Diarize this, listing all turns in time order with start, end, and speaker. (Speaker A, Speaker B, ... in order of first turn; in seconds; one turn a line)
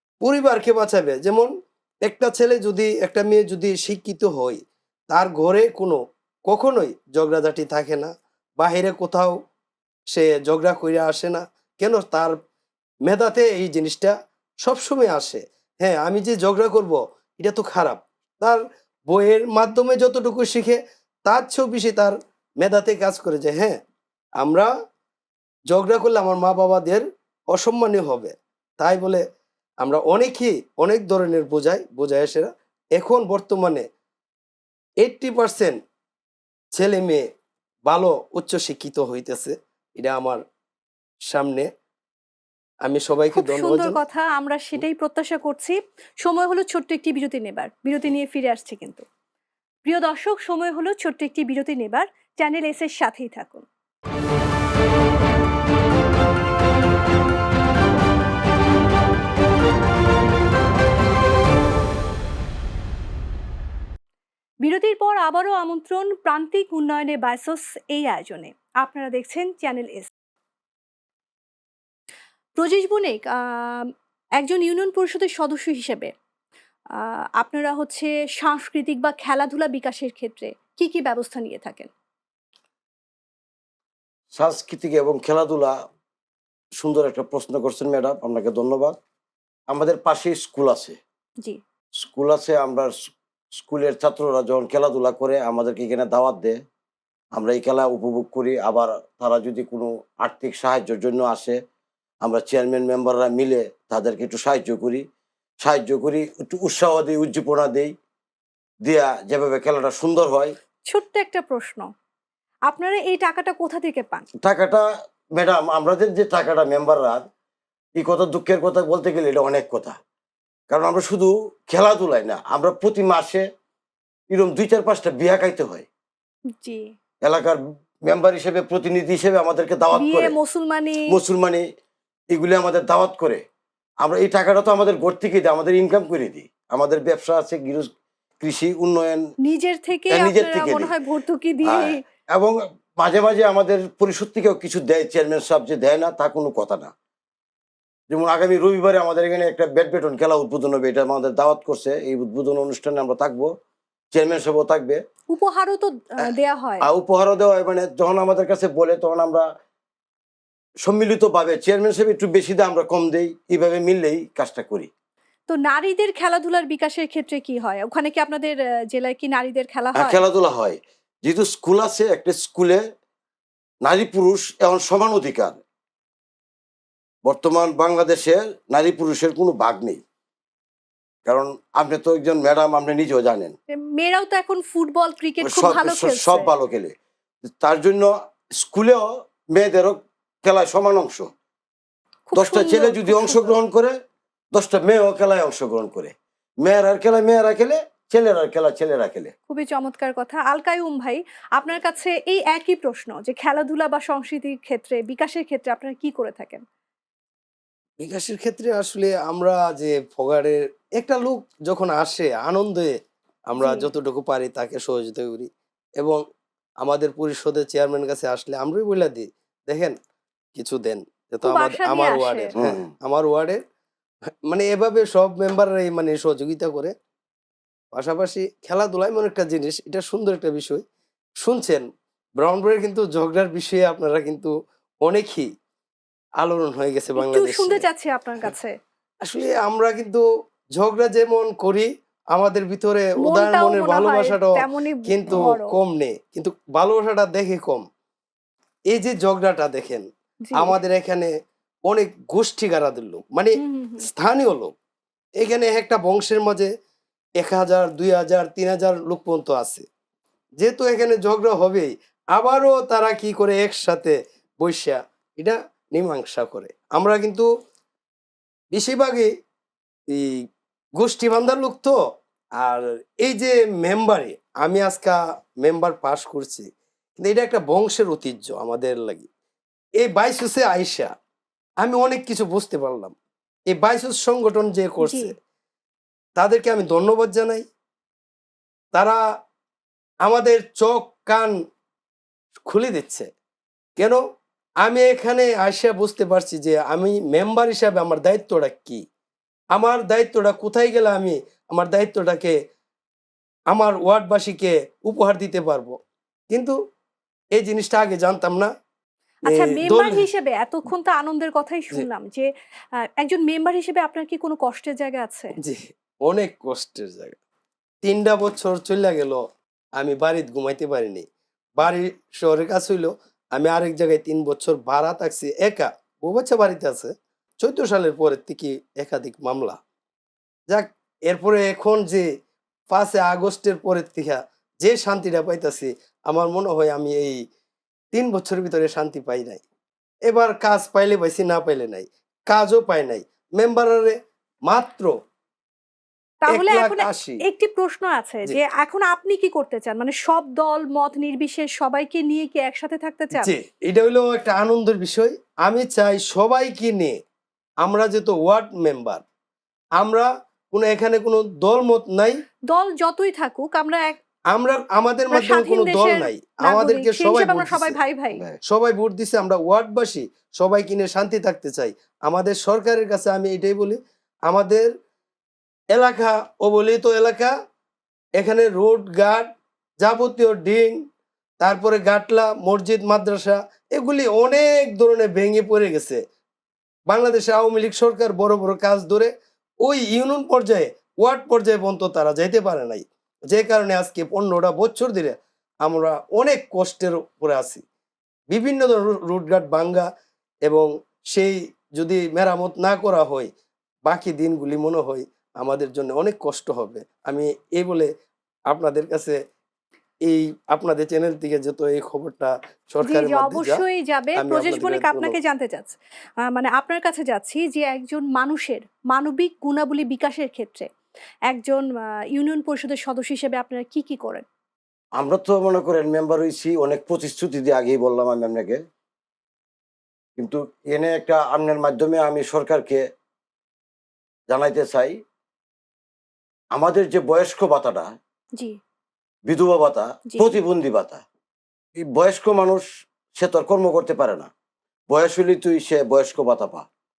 Speaker A: 0.2-1.5
Speaker A: 2.0-9.4
Speaker A: 10.1-12.4
Speaker A: 13.1-23.8
Speaker A: 24.4-24.7
Speaker A: 25.7-29.2
Speaker A: 29.8-33.9
Speaker A: 35.0-35.8
Speaker A: 36.7-37.2
Speaker A: 37.9-40.4
Speaker A: 41.3-41.7
Speaker A: 42.8-44.0
Speaker B: 43.3-49.0
Speaker B: 49.8-53.6
Speaker B: 64.6-70.1
Speaker B: 72.6-76.1
Speaker B: 76.9-81.9
Speaker C: 84.3-85.8
Speaker C: 86.8-89.0
Speaker C: 89.7-91.0
Speaker C: 92.0-92.9
Speaker C: 93.5-96.6
Speaker C: 97.3-101.6
Speaker C: 102.2-105.0
Speaker C: 105.6-107.9
Speaker C: 108.8-110.5
Speaker B: 110.9-111.9
Speaker B: 112.7-114.3
Speaker C: 114.4-117.2
Speaker C: 118.0-120.0
Speaker C: 120.7-123.5
Speaker C: 124.3-125.9
Speaker B: 126.6-126.9
Speaker C: 127.2-130.3
Speaker B: 129.9-131.1
Speaker C: 131.1-131.6
Speaker C: 132.3-133.4
Speaker C: 134.0-139.2
Speaker B: 139.4-142.0
Speaker C: 140.1-140.9
Speaker C: 141.6-146.9
Speaker C: 148.1-153.5
Speaker C: 154.1-155.0
Speaker B: 155.3-156.8
Speaker C: 156.8-159.5
Speaker C: 160.8-164.9
Speaker B: 165.5-170.2
Speaker C: 169.9-172.8
Speaker C: 173.8-175.6
Speaker C: 177.2-180.0
Speaker C: 181.2-183.6
Speaker B: 183.8-186.5
Speaker C: 185.4-186.9
Speaker C: 187.5-191.3
Speaker B: 192.3-193.5
Speaker C: 192.3-193.9
Speaker C: 194.5-199.3
Speaker B: 199.5-206.6
Speaker A: 208.0-212.9
Speaker A: 213.5-216.2
Speaker B: 213.6-213.9
Speaker A: 216.8-219.9
Speaker A: 220.6-223.6
Speaker B: 221.4-222.5
Speaker C: 222.6-222.8
Speaker A: 224.5-226.9
Speaker A: 227.9-230.8
Speaker A: 231.4-231.9
Speaker A: 232.4-234.5
Speaker A: 235.0-235.5
Speaker A: 236.4-237.8
Speaker B: 237.2-238.7
Speaker A: 239.2-240.2
Speaker A: 240.8-247.8
Speaker B: 243.2-245.7
Speaker A: 248.9-251.3
Speaker B: 250.4-250.8
Speaker A: 251.9-254.7
Speaker B: 253.6-254.1
Speaker A: 255.4-256.7
Speaker A: 257.4-259.9
Speaker A: 260.6-267.5
Speaker A: 268.7-269.3
Speaker A: 270.1-270.4
Speaker A: 271.0-271.9
Speaker A: 272.6-279.3
Speaker A: 280.0-281.1
Speaker A: 281.8-283.1
Speaker A: 283.7-285.3
Speaker B: 285.0-285.3
Speaker A: 286.4-287.6
Speaker A: 288.9-289.2
Speaker A: 290.2-291.5
Speaker A: 292.6-293.3
Speaker A: 294.8-299.0
Speaker A: 299.8-302.6
Speaker A: 303.7-305.9
Speaker A: 306.5-306.8
Speaker A: 307.6-308.7
Speaker B: 309.4-315.5
Speaker A: 309.5-310.2
Speaker A: 315.6-317.4
Speaker A: 318.0-319.4
Speaker A: 320.0-321.2
Speaker A: 321.8-327.1
Speaker A: 327.6-329.8
Speaker A: 330.7-332.3
Speaker A: 332.9-337.4
Speaker A: 338.1-339.6
Speaker A: 340.3-344.1
Speaker A: 344.7-345.1
Speaker B: 346.4-353.5
Speaker A: 346.5-347.4
Speaker A: 353.3-357.2
Speaker A: 357.8-359.2
Speaker A: 360.0-362.4
Speaker B: 362.7-364.2
Speaker A: 364.5-367.9
Speaker B: 365.3-368.4
Speaker A: 368.6-374.9
Speaker A: 375.9-377.5
Speaker A: 378.4-379.5
Speaker A: 380.0-381.0
Speaker A: 381.6-386.2
Speaker A: 387.1-389.3
Speaker A: 389.8-397.8
Speaker A: 398.5-400.1
Speaker A: 400.6-403.5
Speaker A: 404.1-408.1
Speaker A: 408.7-409.4
Speaker A: 410.3-413.8
Speaker B: 413.0-420.9
Speaker A: 414.4-415.4
Speaker B: 421.5-424.4
Speaker C: 425.2-428.8
Speaker C: 430.4-433.0
Speaker C: 434.5-435.2
Speaker C: 436.7-438.1
Speaker C: 439.5-441.2
Speaker C: 441.9-442.8
Speaker C: 443.3-444.5
Speaker C: 445.1-446.9